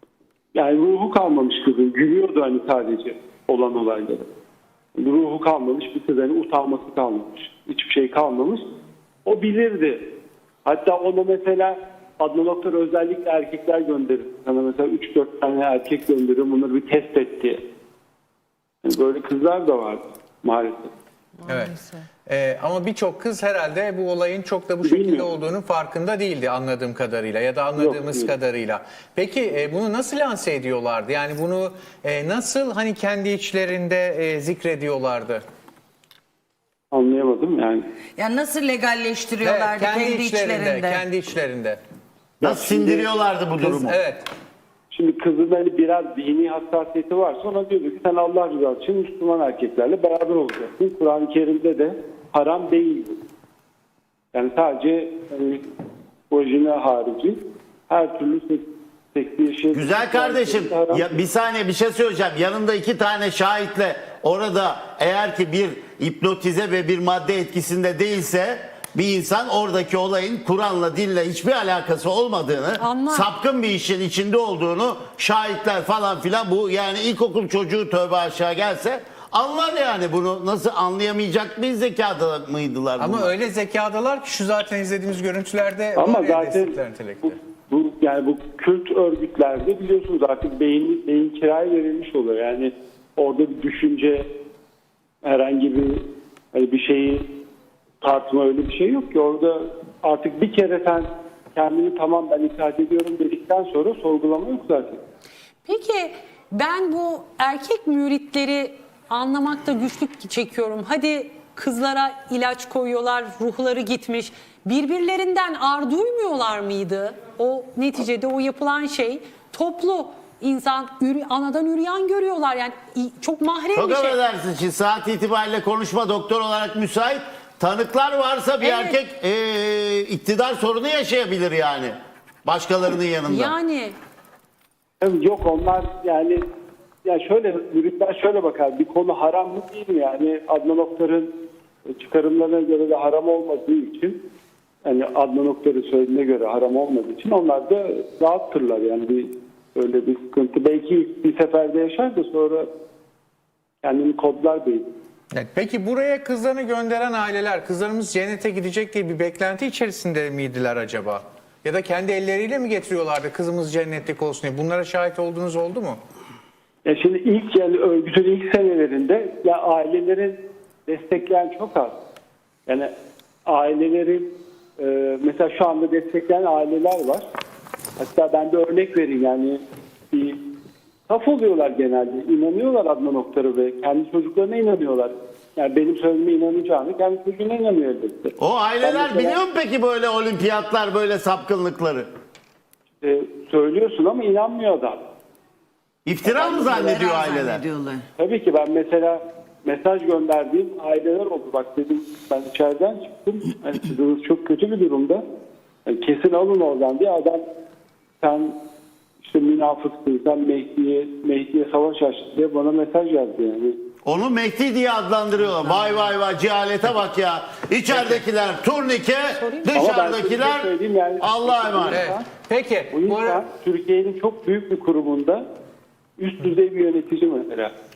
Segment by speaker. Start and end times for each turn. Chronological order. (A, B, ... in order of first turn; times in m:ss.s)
0:00.6-0:04.3 A
0:05.0-0:08.7 A
0:09.2-0:10.0 A
0:10.6-0:17.6 A
0:18.8-0:20.9 A
0:21.5-0:35.4 B
0:21.5-0:22.0 C
0:24.8-0:25.4 A
0:27.8-0:28.3 A
0:36.9-0:37.8 A
0:38.2-0:41.0 D
0:39.4-0:41.8 B
0:42.4-0:43.1 A
0:42.4-0:44.0 E
0:43.6-0:44.2 B
0:44.9-0:53.2 A
0:54.3-0:55.6 A
0:56.3-0:57.4 A
0:57.9-1:01.0 A
0:59.7-1:23.3 E
1:12.8-1:13.3 C
1:23.0-1:27.4 B
1:26.0-1:34.3 A
1:35.2-1:37.3 A
1:38.0-1:45.0 A
1:45.7-2:04.2 C
2:03.8-2:13.5 E
2:08.6-2:09.0 C
2:13.3-2:14.0 C
2:15.0-2:16.4 A
2:17.0-2:21.3 A
2:21.9-2:24.2 A
2:24.8-2:32.7 A
2:33.8-2:34.9 A
2:35.3-2:46.0 B
2:46.8-2:52.0 A
2:53.5-2:57.2 A
2:58.0-3:00.4 A
3:01.1-3:09.4 A
3:08.4-3:12.1 E
3:13.0-3:15.0 A
3:16.0-3:17.6 E
3:16.2-3:17.0 A
3:16.3-3:18.0 D
3:18.2-3:25.2 A
3:25.9-3:27.4 A
3:28.2-3:28.6 A
3:29.2-3:33.8 A
3:34.0-3:42.0 E
3:39.3-3:40.0 C
3:39.7-3:42.3 A
3:41.9-3:43.4 B
3:42.9-3:45.5 A
3:46.2-3:47.7 A